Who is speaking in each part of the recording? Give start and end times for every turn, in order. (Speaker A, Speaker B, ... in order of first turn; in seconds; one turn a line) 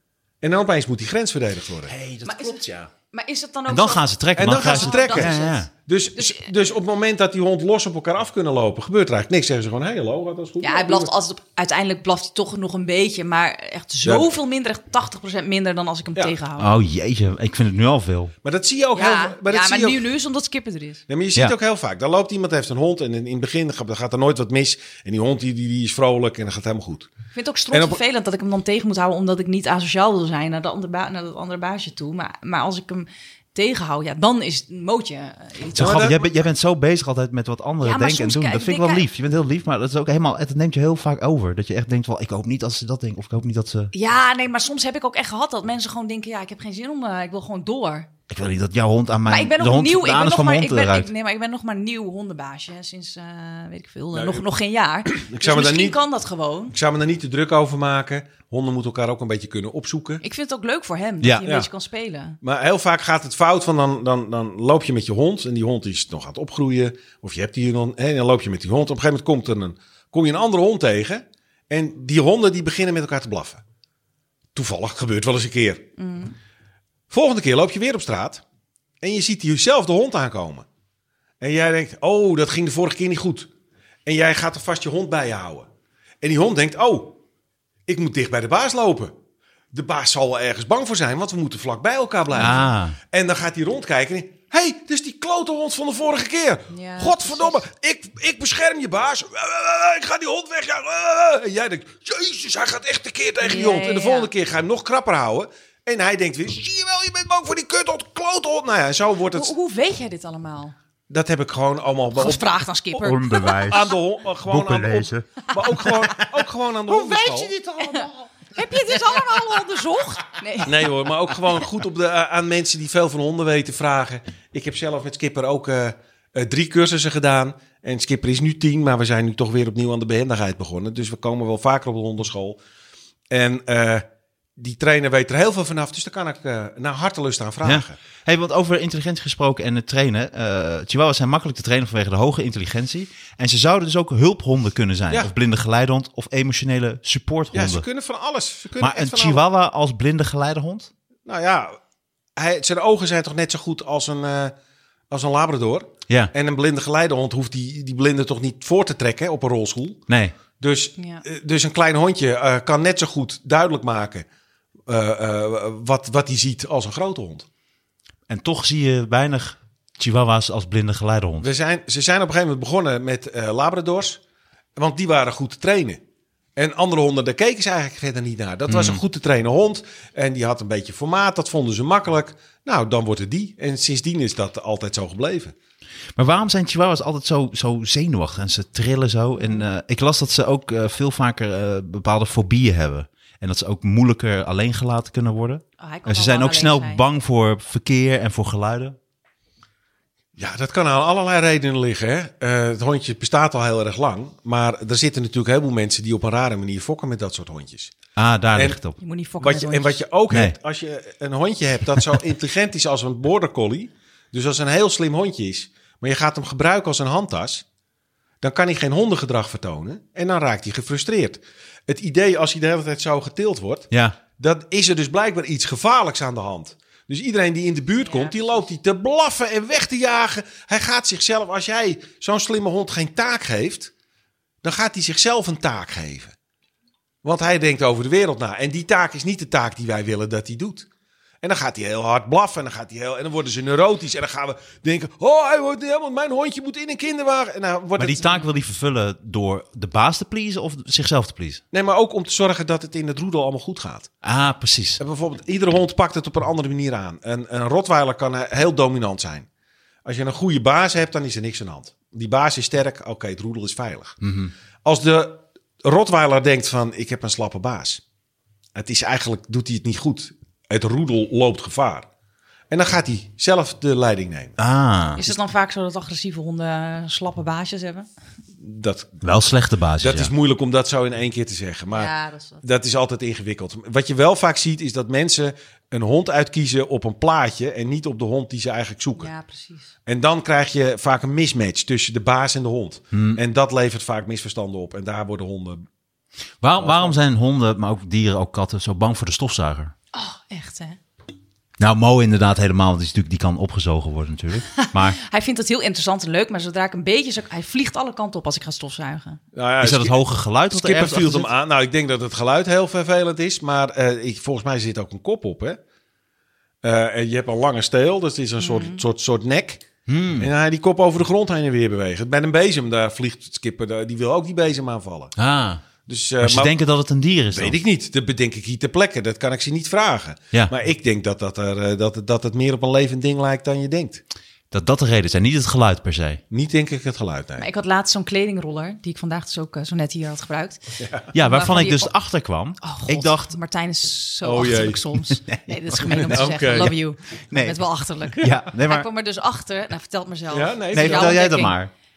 Speaker A: 0.4-1.9
Speaker B: 1.9-2.9
Speaker C: 2.2-5.6
Speaker B: 3.7-5.7
Speaker A: 4.4-11.1
Speaker C: 6.2-6.5
Speaker C: 10.6-16.7
Speaker A: 14.1-14.3
Speaker B: 16.6-18.3
Speaker A: 18.4-20.1
Speaker C: 18.9-21.0
Speaker A: 21.1-27.1
Speaker C: 27.3-36.2
Speaker A: 27.7-28.0
Speaker A: 35.7-36.3
Speaker B: 35.7-43.9
Speaker C: 37.8-39.1
Speaker C: 43.9-48.1
Speaker B: 48.3-51.1
Speaker C: 49.3-56.7
Speaker A: 54.1-54.4
Speaker A: 55.0-56.0
Speaker A: 56.7-60.2
Speaker C: 60.2-62.4
Speaker A: 61.4-61.7
Speaker A: 62.4-73.6
Speaker A: 74.5-75.9
Speaker C: 76.0-76.3
Speaker A: 77.1-78.4
Speaker A: 79.0-80.7
Speaker A: 81.4-83.5
Speaker A: 84.0-85.7
Speaker A: 86.2-87.2
Speaker A: 87.9-89.1
Speaker A: 89.7-109.5
Speaker B: 92.3-93.0
Speaker C: 96.7-97.6
Speaker C: 103.4-104.3
Speaker C: 109.3-110.7
Speaker A: 111.1-117.7
Speaker C: 112.1-113.9
Speaker B: 113.0-113.8
Speaker B: 114.5-115.9
Speaker C: 115.6-115.9
Speaker B: 116.9-118.2
Speaker C: 117.8-120.9
Speaker A: 120.6-132.6
Speaker A: 133.3-134.1
Speaker A: 134.6-137.9
Speaker B: 137.6-147.8
Speaker A: 147.5-149.4
Speaker B: 148.8-150.9
Speaker A: 151.2-151.8
Speaker A: 152.4-154.5
Speaker A: 155.1-160.0
Speaker B: 160.1-160.3
Speaker A: 160.6-164.2
Speaker C: 161.0-161.2
Speaker A: 164.9-167.4
Speaker B: 168.3-171.5
Speaker A: 171.4-174.2
Speaker A: 174.8-176.0
Speaker A: 176.6-185.5
Speaker B: 178.7-179.0
Speaker B: 186.2-199.0
Speaker C: 195.8-197.0
Speaker A: 200.4-208.0
Speaker B: 208.2-209.0
Speaker C: 209.0-210.0
Speaker A: 209.4-217.6
Speaker B: 210.3-210.6
Speaker A: 218.4-233.9
Speaker B: 223.9-224.2
Speaker C: 228.0-228.7
Speaker A: 234.6-236.3
Speaker A: 237.2-240.9
Speaker A: 241.4-248.3
Speaker B: 247.9-251.6
Speaker A: 251.7-254.1
Speaker B: 254.2-255.0
Speaker A: 255.0-259.4
Speaker A: 260.1-264.2
Speaker B: 264.2-264.5
Speaker A: 264.8-268.0
Speaker A: 268.7-272.1
Speaker A: 272.7-274.6
Speaker B: 274.6-275.2
Speaker C: 275.1-278.1
Speaker A: 278.6-279.3
Speaker B: 279.2-280.3
Speaker A: 280.0-289.3
Speaker C: 281.9-282.6
Speaker C: 289.1-289.9
Speaker A: 290.1-295.9
Speaker B: 293.1-293.4
Speaker B: 296.6-299.9
Speaker A: 296.8-297.2
Speaker C: 300.1-301.0
Speaker B: 301.8-305.2
Speaker C: 304.8-309.4
Speaker A: 309.5-315.8
Speaker B: 309.8-311.5
Speaker A: 316.8-325.3
Speaker C: 318.6-319.0
Speaker B: 320.1-320.5
Speaker B: 325.4-325.8
Speaker A: 326.1-326.7
Speaker B: 326.4-327.8
Speaker A: 327.5-334.2
Speaker B: 334.7-336.4
Speaker A: 336.5-337.7
Speaker C: 337.6-340.8
Speaker A: 341.0-341.3
Speaker B: 341.3-343.5
Speaker C: 341.4-342.1
Speaker C: 342.8-351.8
Speaker A: 344.4-345.0
Speaker B: 345.3-346.8
Speaker A: 346.1-346.9
Speaker B: 347.5-349.1
Speaker A: 350.5-351.4
Speaker B: 350.9-351.9